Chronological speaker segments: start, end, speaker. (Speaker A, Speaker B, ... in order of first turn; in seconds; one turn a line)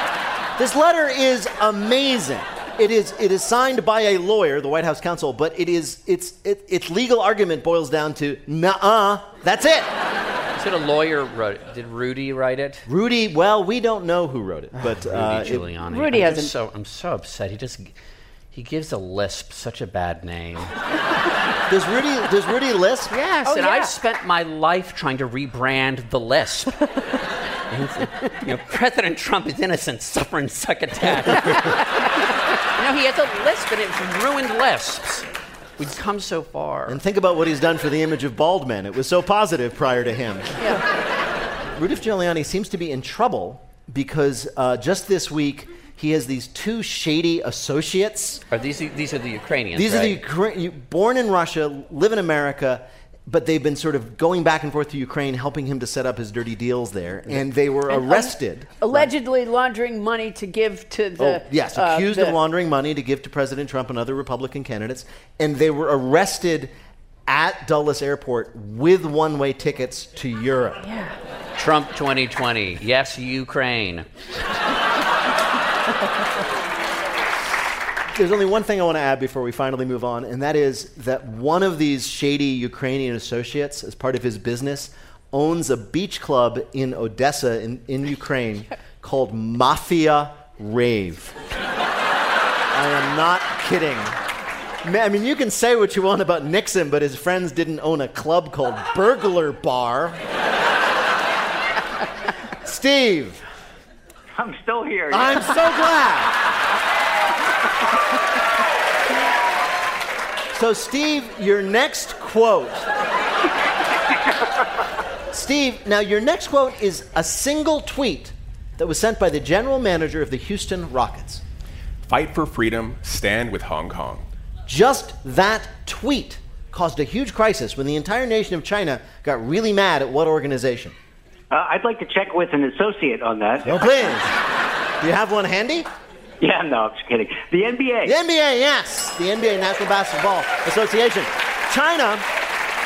Speaker A: 0.6-9.9
Speaker B: 10.5-12.8
Speaker A: 12.9-15.7
Speaker B: 14.8-17.9
Speaker C: 15.9-16.5
Speaker B: 18.5-20.7
Speaker A: 21.7-23.1
Speaker B: 23.1-26.8
Speaker C: 23.4-23.9
Speaker B: 27.7-31.8
Speaker B: 32.8-35.2
Speaker B: 35.8-37.0
Speaker A: 36.9-40.5
Speaker A: 41.8-48.4
Speaker B: 48.5-50.2
Speaker A: 49.7-59.1
Speaker C: 57.9-62.4
Speaker A: 61.2-66.7
Speaker A: 67.3-70.8
Speaker B: 71.5-74.1
Speaker A: 78.1-91.4
Speaker A: 92.7-94.2
Speaker A: 94.8-100.2
Speaker A: 102.6-103.4
Speaker D: 104.4-105.6
Speaker A: 105.1-106.3
Speaker A: 110.5-112.9
Speaker A: 115.3-121.4
Speaker E: 122.1-124.2
Speaker A: 124.7-130.9
Speaker D: 131.5-133.7
Speaker A: 133.6-134.3
Speaker A: 135.0-135.9
Speaker D: 136.4-138.1
Speaker A: 138.0-142.2